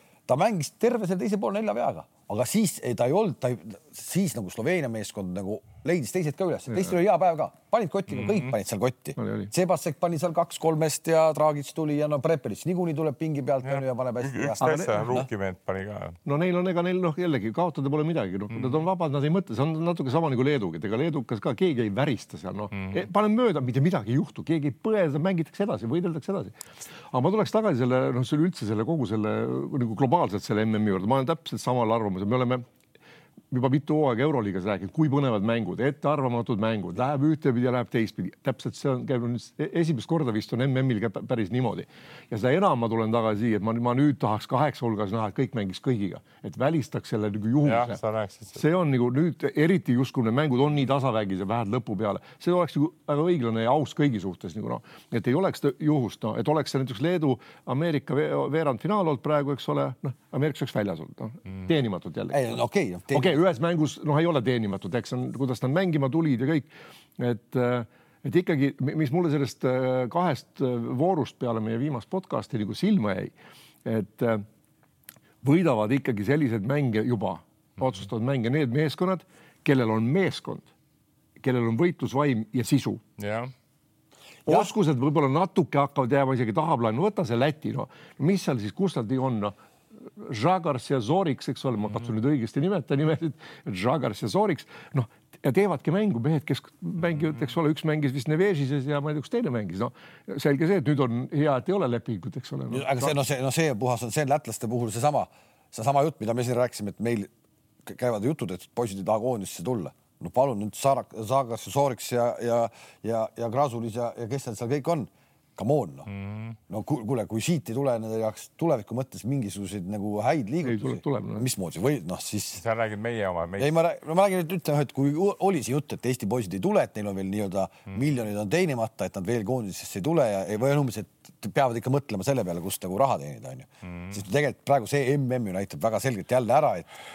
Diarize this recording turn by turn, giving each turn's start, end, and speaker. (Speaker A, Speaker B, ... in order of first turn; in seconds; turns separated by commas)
Speaker A: 0.3-15.3, Speaker B: 8.1-8.5, Speaker C: 9.2-9.5, Speaker B: 13.6-16.2, Speaker C: 14.6-15.2, Speaker C: 16.2-32.6, Speaker B: 22.7-23.1, Speaker C: 33.5-48.0, Speaker B: 47.6-48.6, Speaker C: 48.5-62.6, Speaker A: 62.3-63.4, Speaker C: 63.1-74.4, Speaker C: 75.4-80.7, Speaker C: 81.4-83.0, Speaker B: 83.2-83.5, Speaker C: 84.5-103.1, Speaker A: 102.7-107.3, Speaker A: 107.8-116.1, Speaker B: 116.1-116.6, Speaker A: 116.7-122.6, Speaker C: 120.6-121.5, Speaker B: 122.5-123.7, Speaker A: 123.6-136.9, Speaker B: 133.8-134.2